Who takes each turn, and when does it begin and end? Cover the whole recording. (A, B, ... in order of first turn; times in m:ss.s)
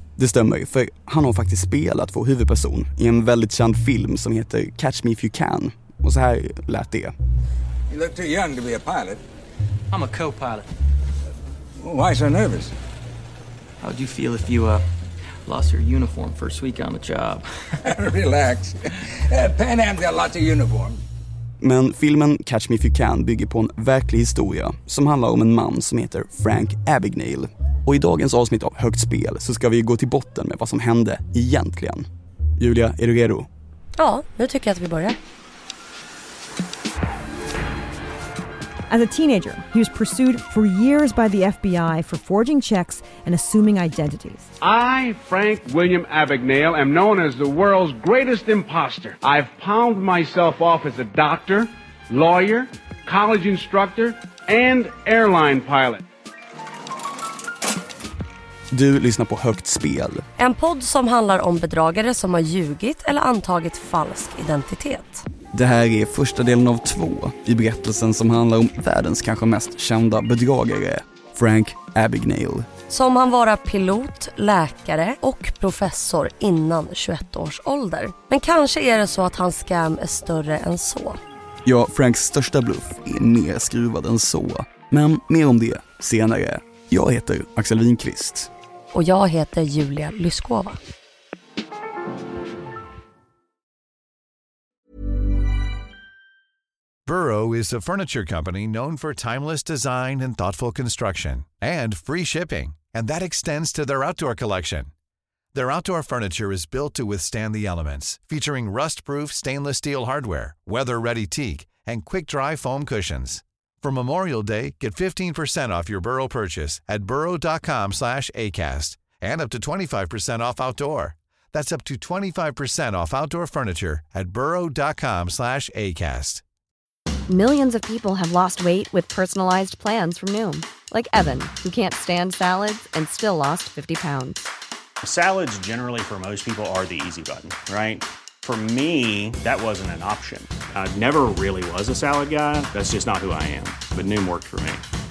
0:00.2-0:07.1 A
0:07.9-0:09.2 B
0:09.9-0:10.7 C
0:11.8-0:12.7 B
0:13.8-0:14.9 C
0:15.4-0:17.6 C
0:17.9-0:21.0 B
0:21.6-0:33.5 A
0:34.0-0:35.2 D
0:38.9-0:44.5 E
0:44.6-0:56.0 F
0:58.7-1:00.2 A
1:00.4-1:05.3 D
1:05.5-1:12.7 A
1:12.9-1:21.2 D
1:21.6-1:28.5 A
1:28.9-1:30.8 D
1:37.0-1:44.9 G
1:45.5-2:06.4 G
2:07.3-2:14.5 H
2:15.0-2:24.8 I